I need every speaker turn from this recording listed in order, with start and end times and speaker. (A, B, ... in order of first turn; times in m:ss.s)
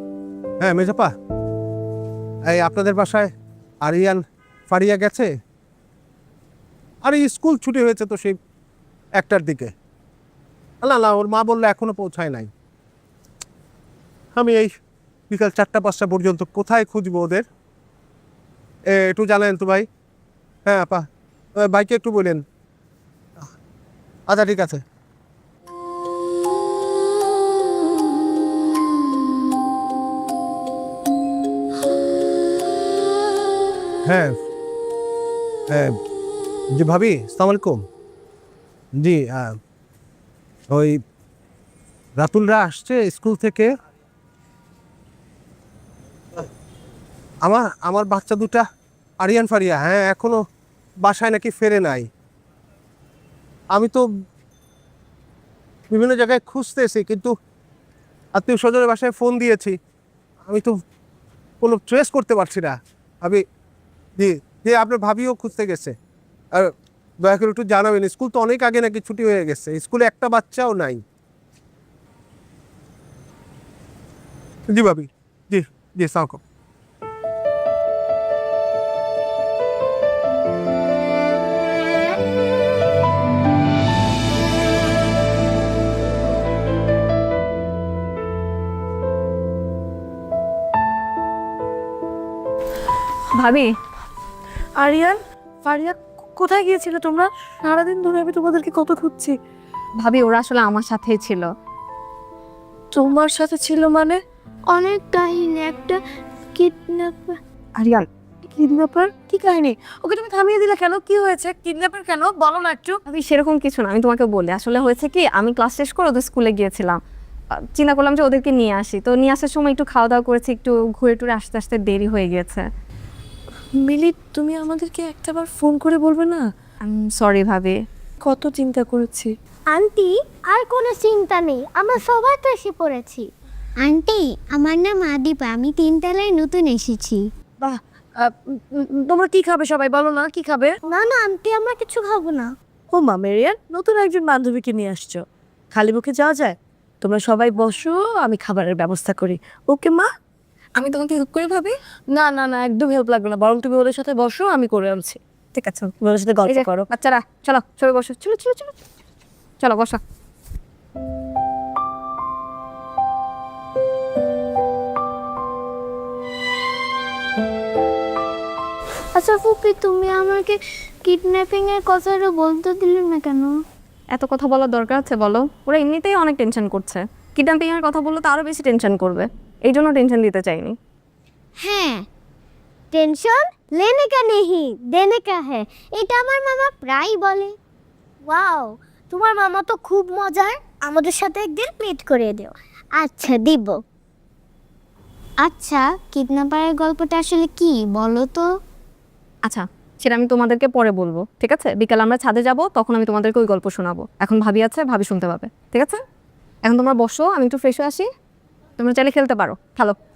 0:00.6-0:01.1 A
0:02.4-0:03.3 A
0:03.8-0:05.3 A
0:07.0-0:08.4 A
0:09.2-0:09.7 A
0:10.8-0:12.5 A
0:14.4-0:14.7 A
0:15.3-0:17.4 A
0:18.9-0:19.8 A
0:20.6-0:21.0 A
0:21.6-0:22.4 A
0:24.3-0:24.8 A
0:34.0-0:34.4 A
0:35.7-0:36.0 A
0:36.7-0:37.8 A
0:39.0-0:39.6 A
0:40.7-0:41.0 A
0:42.2-0:43.7 A
0:47.4-0:48.6 A
0:49.2-0:50.4 A
0:51.0-0:52.1 A
0:53.7-0:54.0 A
0:55.9-0:57.3 A
0:58.3-0:59.8 A
1:00.5-1:00.7 A
1:01.6-1:03.4 A
1:04.2-1:05.9 A
1:07.2-1:11.0 A
1:14.7-1:16.4 A
1:33.4-1:33.7 B
1:34.8-1:39.4 C
1:40.0-1:41.5 B
1:42.9-1:44.2 C
1:44.7-1:46.0 D
1:46.6-1:47.4 D
1:47.8-1:48.0 B
1:48.5-1:53.0 C
1:53.1-1:57.0 B
1:57.7-2:02.6 B
2:03.8-2:06.4 C
2:06.8-2:07.8 B
2:08.2-2:09.3 C
2:09.7-2:13.3 D
2:15.2-2:17.0 D
2:16.5-2:17.0 E
2:17.6-2:20.8 C
2:20.9-2:22.5 D
2:22.9-2:30.1 C
2:30.8-2:31.7 B
2:32.1-2:35.2 C
2:35.6-2:35.9 B
2:36.0-2:36.9 C
2:36.4-2:38.7 B
2:39.6-2:40.0 B
2:49.1-2:53.5 D
2:54.1-3:00.7 B
3:01.6-3:02.0 D
3:02.9-3:07.5 D
3:08.3-3:13.6 D
3:13.3-3:13.7 E
3:15.6-3:18.4 E
3:19.4-3:26.0 B
3:26.6-3:28.0 B
3:28.8-3:30.0 B